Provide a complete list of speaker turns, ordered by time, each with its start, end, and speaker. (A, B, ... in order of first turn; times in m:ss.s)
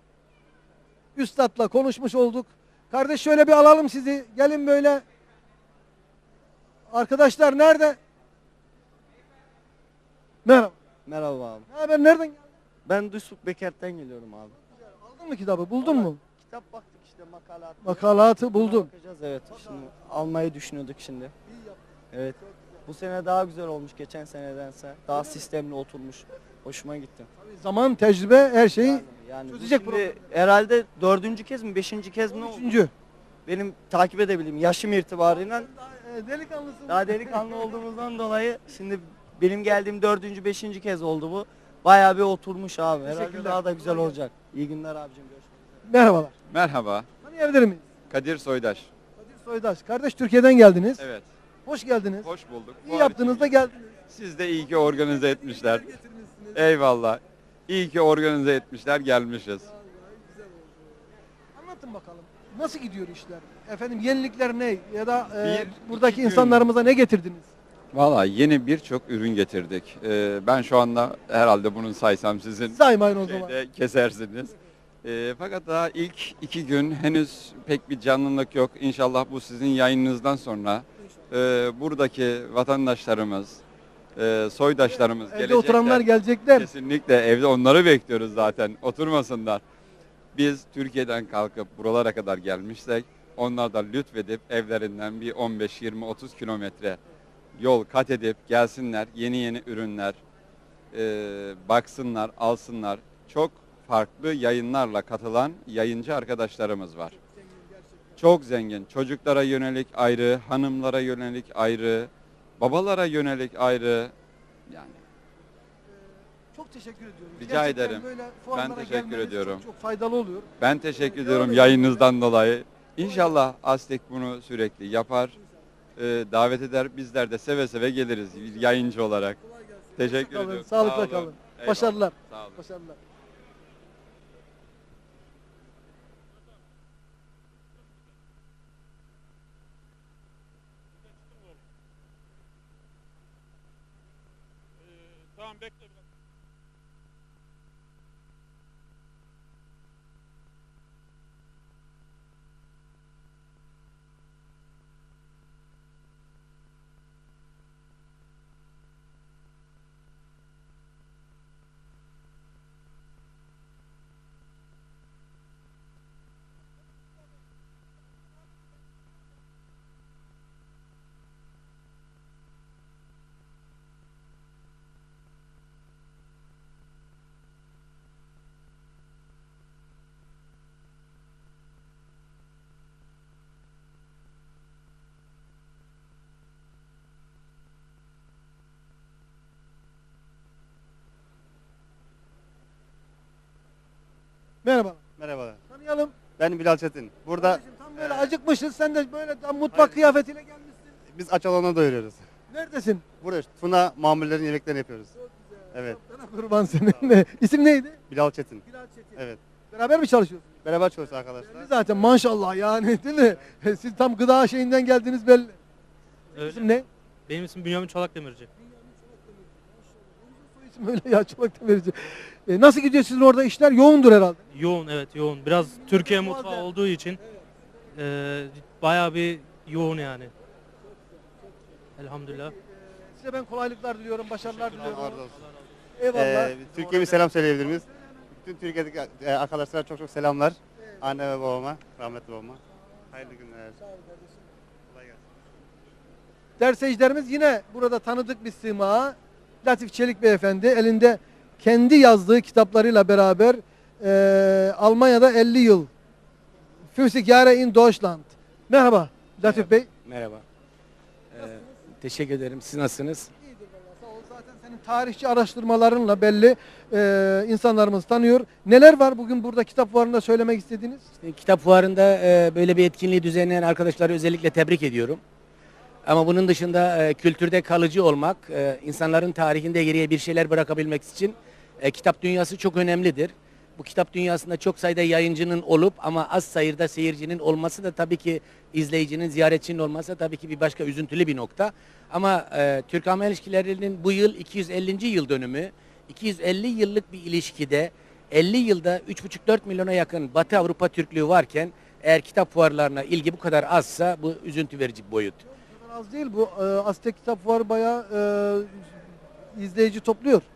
0:01.2-0:05.0 A
0:06.9-0:08.0 A
0:10.4-0:10.8 A
0:11.0-0:11.7 B
0:11.7-0:12.5 A
0:12.8-0:14.5 B
0:14.6-0:16.2 A
0:15.8-0:21.3 B
0:17.8-0:18.9 A
0:22.1-0:27.3 B
0:27.4-0:30.2 A
0:28.8-0:32.8 B
0:32.3-0:32.9 A
0:33.4-0:35.7 B
0:35.6-0:37.6 A
0:36.9-0:45.6 B
0:43.0-0:44.1 A
0:45.8-0:46.3 A
0:46.5-0:47.1 C
0:47.2-0:47.8 A
0:48.1-0:48.9 C
0:49.2-0:51.0 A
0:51.0-0:51.3 C
0:51.6-0:52.3 A
0:52.2-0:53.5 C
0:52.8-0:53.9 A
0:54.1-0:56.0 C
0:54.8-0:56.6 A
0:56.5-0:59.7 C
0:59.7-1:00.4 A
1:01.5-1:07.5 A
1:05.3-1:06.7 C
1:07.9-1:23.6 C
1:12.7-1:13.5 A
1:24.2-1:29.6 C
1:25.3-1:26.7 A
1:30.3-1:37.0 C
1:37.6-1:40.2 C
1:40.9-1:47.2 C
1:48.2-1:54.1 C
1:54.7-1:55.0 C
1:55.9-2:02.1 A
1:57.4-1:59.6 C
2:00.6-2:05.4 C
2:03.0-2:03.3 A
2:06.0-2:09.4 C
2:10.0-2:12.6 C
2:10.0-2:13.0 A
3:14.6-3:15.0 A
3:15.2-3:15.6 D
3:15.7-3:16.1 A
3:16.3-3:18.3 D
3:17.4-3:20.8 A
3:21.1-3:22.2 D
3:22.5-3:23.0 A
3:23.2-3:25.1 D
3:25.3-3:28.0 A
3:28.1-3:29.4 D
3:28.7-3:29.1 A
3:29.7-3:30.6 A
3:30.6-3:31.7 D
3:31.4-3:35.6 A
3:36.4-3:36.7 E
3:36.4-3:36.8 A
3:37.3-3:38.5 E
3:40.3-3:44.4 A
3:44.5-3:47.2 E
3:45.8-3:46.7 A
3:47.9-3:50.3 E
3:52.0-3:52.5 E
3:53.2-3:55.2 A
3:54.4-3:55.6 E
3:54.8-3:55.4 D
3:56.0-3:56.6 A
3:56.1-4:02.6 D
4:03.1-4:03.8 D
4:04.9-4:05.2 D
4:06.6-4:15.9 A
4:16.9-4:19.9 A
4:19.4-4:20.4 F
4:21.3-4:23.3 F
4:23.5-4:31.0 A
4:31.2-4:35.2 F
4:36.0-5:05.4 F
5:05.4-5:09.0 A
5:09.5-5:10.4 A